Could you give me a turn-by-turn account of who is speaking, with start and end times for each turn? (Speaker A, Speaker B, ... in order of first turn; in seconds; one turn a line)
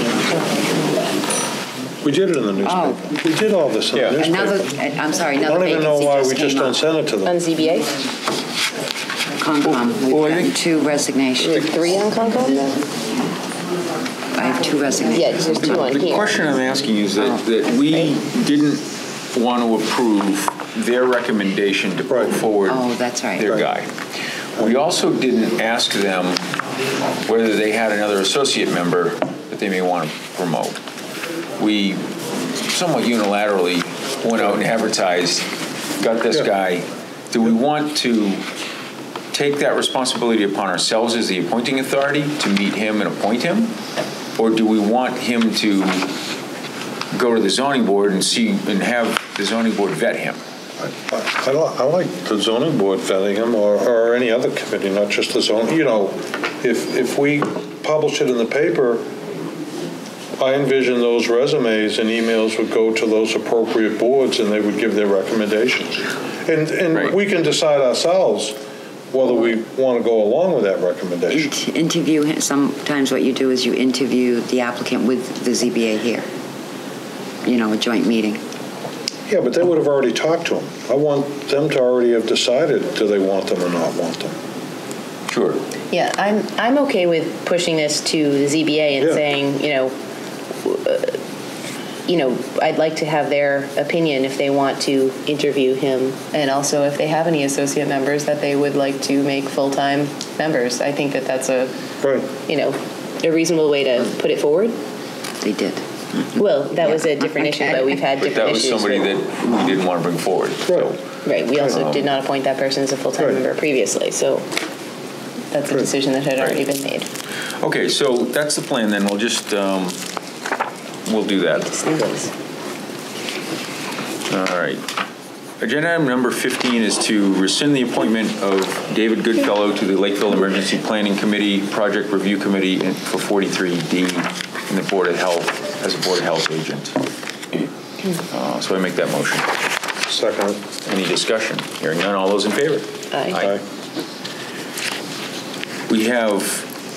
Speaker A: 2.0-4.8
Speaker B: 2.6-3.0
Speaker C: 3.9-4.3
Speaker B: 4.2-6.8
Speaker A: 5.4-7.4
Speaker D: 7.2-7.9
Speaker B: 9.4-11.6
Speaker C: 9.6-10.6
Speaker D: 11.4-12.8
Speaker B: 14.3-15.9
Speaker D: 15.1-16.3
Speaker C: 15.6-23.9
Speaker A: 22.1-22.4
Speaker B: 22.7-23.4
Speaker C: 24.6-26.4
Speaker C: 27.2-30.8
Speaker C: 31.6-32.0
Speaker C: 32.6-35.5
Speaker C: 36.0-38.5
Speaker C: 39.3-43.7
Speaker C: 44.4-46.1
Speaker C: 47.1-50.4
Speaker A: 50.8-59.0
Speaker A: 60.4-68.5
Speaker A: 69.1-71.5
Speaker B: 71.3-76.3
Speaker B: 77.5-78.4
Speaker A: 79.3-84.3
Speaker C: 85.3-85.6
Speaker D: 85.9-89.9
Speaker D: 90.6-91.2
Speaker D: 92.1-101.7
Speaker A: 102.0-102.3
Speaker D: 102.5-104.7
Speaker B: 105.4-108.1
Speaker D: 106.4-109.1
Speaker C: 108.2-112.1
Speaker A: 110.7-110.9
Speaker D: 111.2-114.5
Speaker D: 115.5-117.1
Speaker C: 116.4-116.6
Speaker C: 117.6-120.0
Speaker C: 121.1-121.7
Speaker D: 121.6-122.3
Speaker C: 124.3-124.8
Speaker C: 125.6-136.9
Speaker C: 138.3-139.5
Speaker A: 140.1-140.7
Speaker C: 140.8-143.6
Speaker A: 143.3-143.6
Speaker C: 145.9-146.7